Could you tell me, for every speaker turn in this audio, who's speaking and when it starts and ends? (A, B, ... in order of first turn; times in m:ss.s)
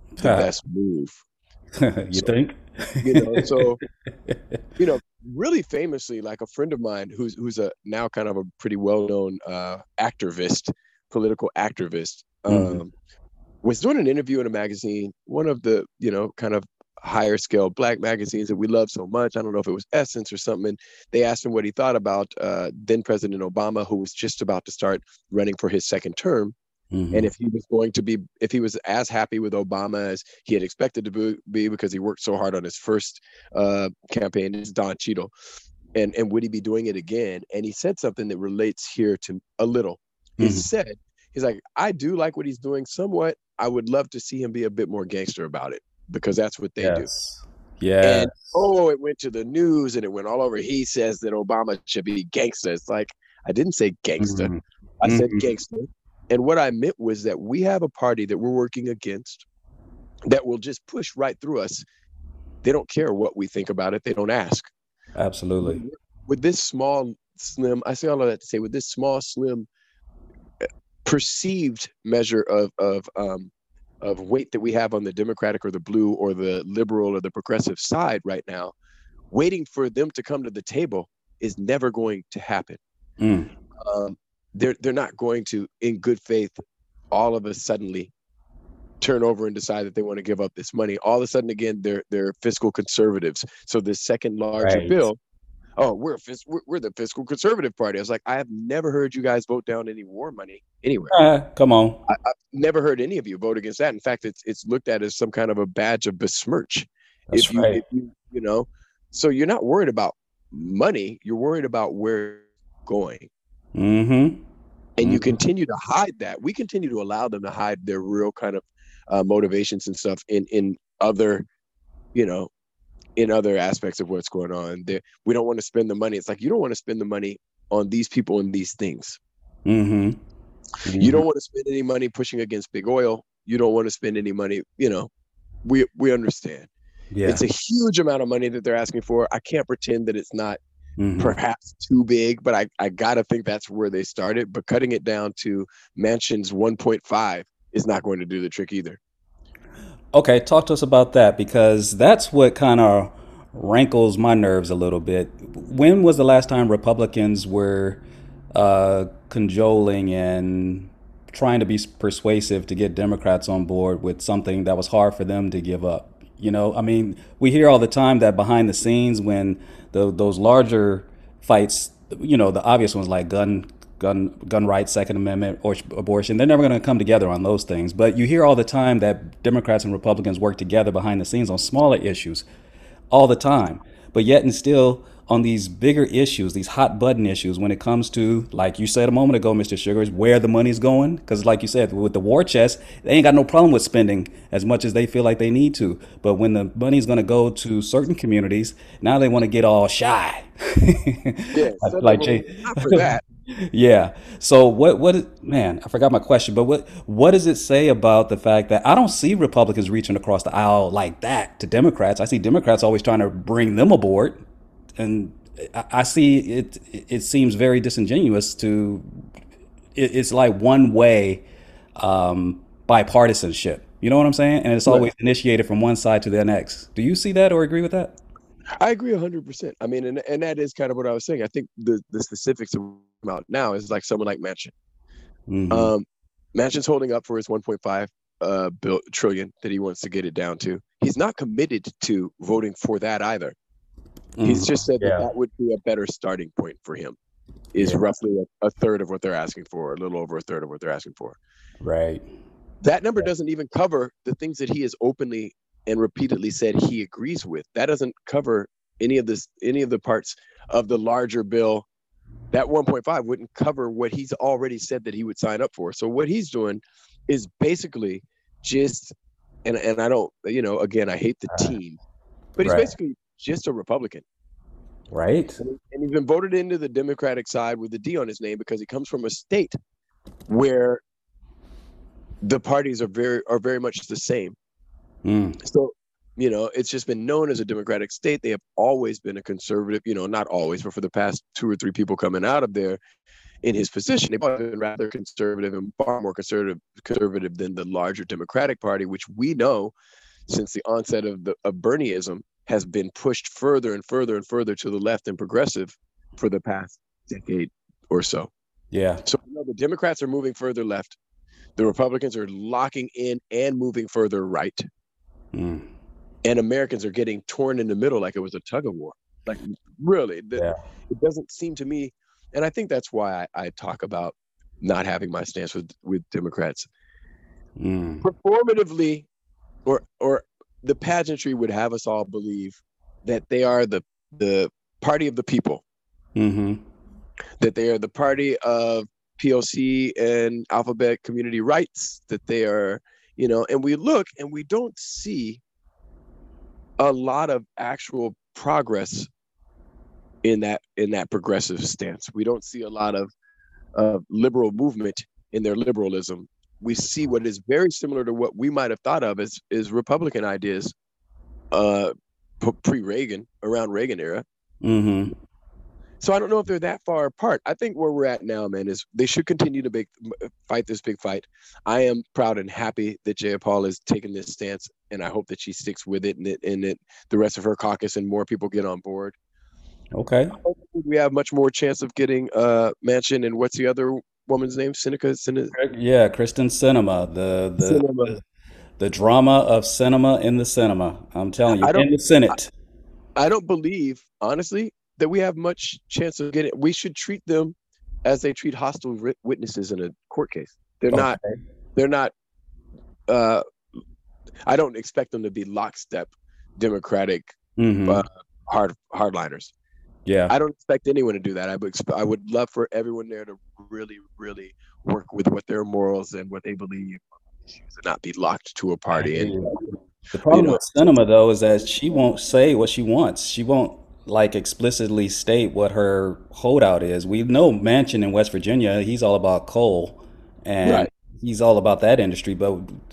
0:00.2-0:00.5 A
0:00.2-0:01.2 B
0:01.8-0:03.6 A
0:03.0-0:03.8 B
0:04.3-0:04.6 A
0:04.8-0:12.9 B
0:12.5-0:12.8 A
0:13.6-0:26.6 B
0:26.9-0:27.3 A
0:27.1-0:35.3 B
0:36.0-0:47.1 B
0:40.4-0:40.7 A
0:46.8-0:48.6 A
0:48.0-0:59.4 B
0:54.2-0:55.5 A
1:00.3-1:01.8 B
1:02.6-1:04.7 B
1:05.2-1:05.8 A
1:05.6-1:09.7 B
1:11.0-1:18.7 B
1:19.3-1:22.8 B
1:23.2-1:23.5 A
1:23.8-1:28.1 B
1:29.0-1:35.2 B
1:34.6-1:35.0 A
1:35.8-1:41.2 B
1:41.1-1:42.0 A
1:42.1-1:53.3 B
1:47.3-1:47.8 A
1:53.8-1:54.4 A
1:55.0-2:01.5 B
1:55.0-1:55.3 A
2:02.1-2:02.5 B
2:03.2-2:09.2 B
2:09.7-2:10.2 A
2:10.8-2:11.2 A
2:11.0-2:15.1 B
2:15.6-2:16.7 B
2:17.1-2:17.4 A
2:17.2-2:20.6 B
2:21.0-2:21.4 A
2:21.2-2:29.0 B
2:30.1-2:38.0 A
2:38.5-3:02.5 A
3:03.1-3:23.0 A
3:21.5-3:23.2 B
3:23.6-3:34.4 A
3:35.0-3:39.1 A
3:40.0-3:41.4 A
3:42.0-3:48.2 A
3:48.8-3:54.7 B
3:55.5-3:55.9 A
3:55.7-4:03.6 B
4:04.4-4:05.3 A
4:04.4-4:07.2 B
4:07.7-4:11.4 B
4:11.8-4:12.2 A
4:12.8-4:21.8 B
4:22.5-4:29.1 B
4:29.6-4:32.0 B
4:31.5-4:31.8 A
4:32.6-4:34.2 B
4:32.6-4:32.9 A
4:35.1-4:35.6 A
4:35.6-4:39.8 B
4:40.5-4:41.0 B
4:42.4-4:44.6 B
4:45.2-4:45.6 A
4:45.6-4:53.0 B
4:53.6-4:59.9 B
5:00.5-5:08.5 B
5:08.9-5:09.2 A
5:09.2-5:11.2 B
5:11.8-5:14.9 B
5:15.5-5:15.9 A
5:16.4-5:26.9 B
5:27.8-5:28.2 A
5:28.2-5:29.3 B
5:29.8-5:35.8 B
5:36.4-5:36.8 A
5:37.6-5:45.6 B
5:47.0-5:49.3 B
5:50.4-5:53.3 B
5:54.0-6:01.0 B
6:01.7-6:04.4 B
6:04.8-6:05.3 A
6:06.2-6:19.4 B
6:20.1-6:20.6 A
6:20.6-6:25.7 B
6:25.7-6:28.4 A
6:27.8-6:28.4 B
6:29.0-6:32.7 A
6:31.7-6:32.6 B
6:33.4-6:41.4 B
6:41.1-6:41.6 A
6:42.0-6:42.3 B
6:43.3-6:43.6 B
6:44.7-6:49.7 B
6:47.8-6:48.2 A
6:50.3-6:50.5 A
6:50.5-6:59.8 B
6:59.1-7:13.0 A
7:00.5-7:00.9 B
7:10.8-7:11.1 B